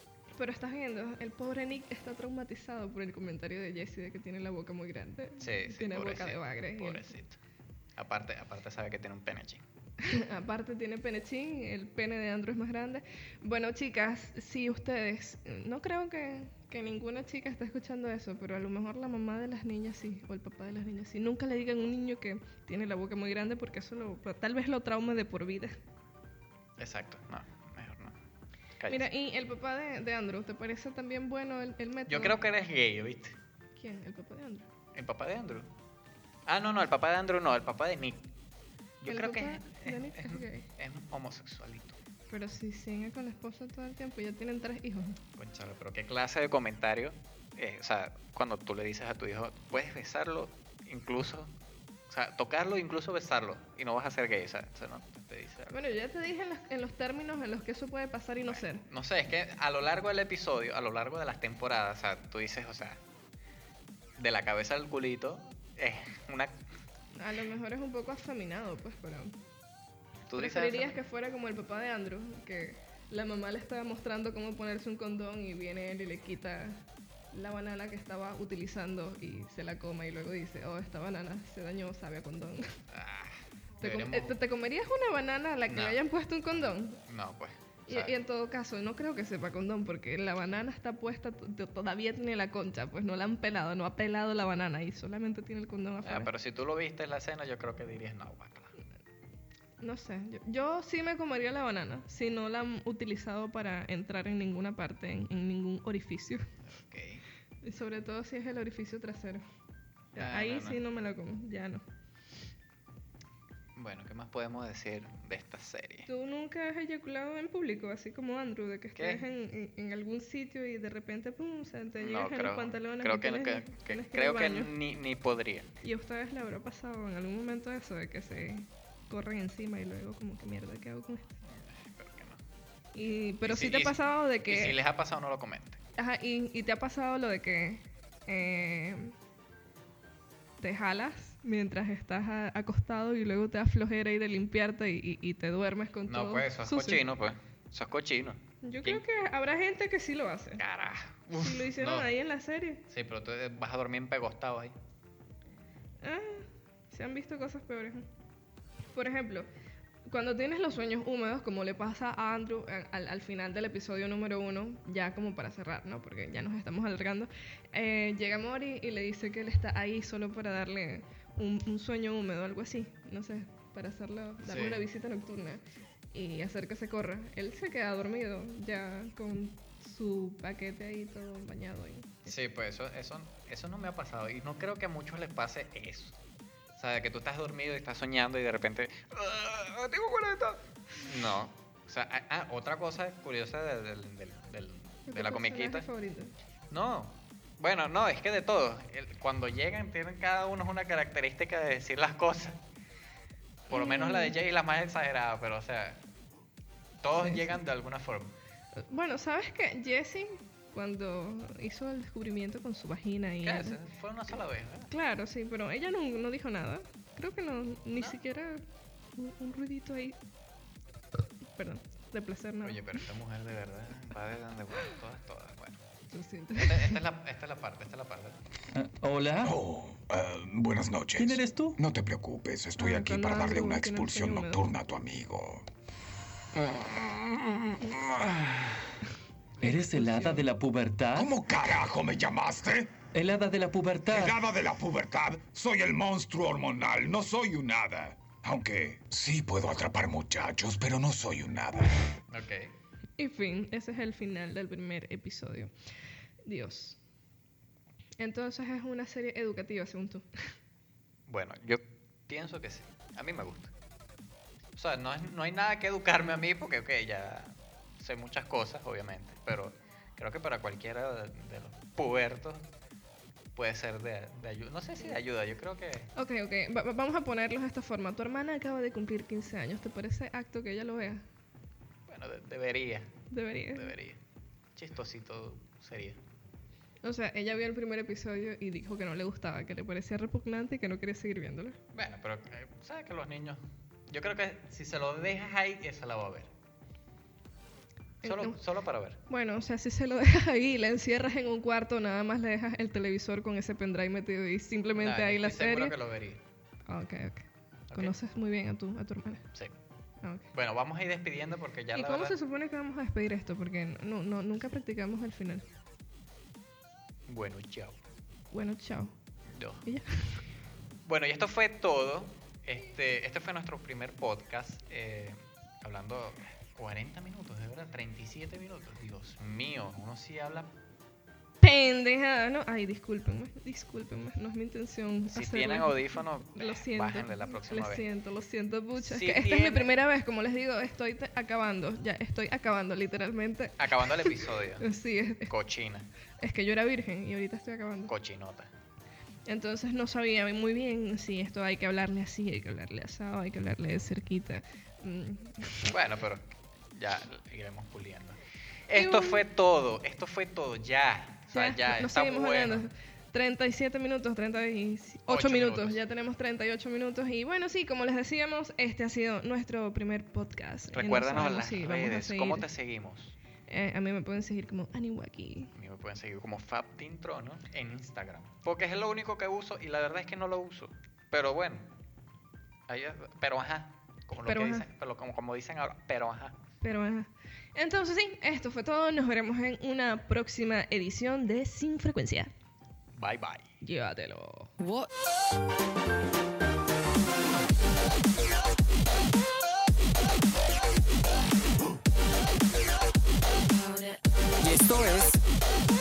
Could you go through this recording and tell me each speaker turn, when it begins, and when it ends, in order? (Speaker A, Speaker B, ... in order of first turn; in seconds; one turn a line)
Speaker A: 0.3-7.1
Speaker B: 5.4-7.4
Speaker B: 8.0-9.6
Speaker A: 10.0-25.8
Speaker B: 26.8-28.1
Speaker B: 28.8-29.1
Speaker A: 28.9-32.4
Speaker B: 32.1-33.4
Speaker A: 33.8-34.7
Speaker B: 34.9-35.7
Speaker B: 36.5-38.3
Speaker B: 39.0-42.0
Speaker A: 39.0-40.6
Speaker A: 42.3-45.2
Speaker B: 45.4-51.5
Speaker B: 52.1-55.7
Speaker A: 55.7-58.8
Speaker B: 58.4-63.0
Speaker B: 64.2-66.6
Speaker A: 67.2-69.3
Speaker B: 70.3-71.0
Speaker A: 70.4-76.8
Speaker A: 77.3-82.7
Speaker B: 82.9-84.4
Speaker A: 83.8-87.0
Speaker B: 85.7-86.0
Speaker B: 87.0-88.1
Speaker A: 87.9-96.3
Speaker B: 96.0-98.7
Speaker A: 99.8-106.5
Speaker B: 106.7-107.2
Speaker A: 107.6-109.4
Speaker A: 110.1-111.8
Speaker B: 110.2-110.8
Speaker B: 113.8-116.1
Speaker A: 116.1-124.7
Speaker B: 119.0-119.2
Speaker B: 122.0-125.7
Speaker A: 125.8-131.3
Speaker B: 131.5-132.4
Speaker A: 132.9-134.7
Speaker B: 133.4-135.8
Speaker A: 136.0-139.1
Speaker A: 140.6-147.0
Speaker B: 146.1-149.0
Speaker A: 148.6-150.6
Speaker B: 150.6-152.1
Speaker A: 151.3-152.8
Speaker B: 152.9-154.7
Speaker A: 156.0-158.1
Speaker A: 158.9-159.5
Speaker A: 160.1-182.3
Speaker B: 174.4-174.8
Speaker B: 182.2-186.2
Speaker B: 186.8-195.8
Speaker A: 195.1-196.3
Speaker B: 196.7-202.6
Speaker B: 203.7-206.0
Speaker A: 203.7-204.3
Speaker B: 207.0-208.3
Speaker A: 207.1-207.6
Speaker A: 208.8-213.8
Speaker B: 213.4-214.9
Speaker A: 214.9-218.6
Speaker A: 219.2-220.2
Speaker A: 221.5-223.0
Speaker B: 222.6-225.8
Speaker A: 226.1-227.0
Speaker B: 226.6-228.4
Speaker C: 228.7-229.6
Speaker D: 229.4-235.6
Speaker C: 231.2-231.8
Speaker A: 232.8-234.7
Speaker E: 236.5-238.7
Speaker A: 239.6-240.4
Speaker C: 239.6-241.3
Speaker D: 241.1-243.1
Speaker C: 243.1-244.4
Speaker D: 244.1-252.0
Speaker B: 252.3-252.7
Speaker A: 253.2-255.7
Speaker A: 256.4-257.0
Speaker A: 258.2-260.5
Speaker B: 261.3-263.7
Speaker B: 264.8-272.6
Speaker B: 273.5-276.1
Speaker A: 276.1-281.2
Speaker B: 282.1-284.2
Speaker A: 283.3-283.9
Speaker B: 284.7-286.2
Speaker A: 287.0-291.8
Speaker B: 291.9-296.5
Speaker A: 298.2-298.6
Speaker B: 298.2-299.2
Speaker A: 299.3-305.9
Speaker B: 305.0-306.4
Speaker A: 306.9-309.4
Speaker B: 310.5-312.4
Speaker A: 311.9-315.6
Speaker B: 317.3-318.0
Speaker A: 318.5-319.1
Speaker B: 319.5-319.9
Speaker A: 319.9-320.4
Speaker B: 321.0-330.7
Speaker A: 331.6-345.5
Speaker B: 335.3-338.0
Speaker B: 339.0-339.9
Speaker B: 343.8-344.9
Speaker B: 345.4-346.1
Speaker A: 346.4-348.1
Speaker B: 348.1-348.7
Speaker A: 349.5-355.9
Speaker B: 355.9-358.4
Speaker B: 358.9-362.9
Speaker A: 358.9-359.4
Speaker A: 361.5-372.6
Speaker B: 365.3-366.0
Speaker B: 370.9-373.4
Speaker A: 373.7-375.7
Speaker B: 375.8-381.9
Speaker B: 382.9-386.6
Speaker A: 384.4-384.9
Speaker A: 386.8-392.5
Speaker B: 393.1-393.7
Speaker A: 393.8-394.7
Speaker E: 404.6-405.4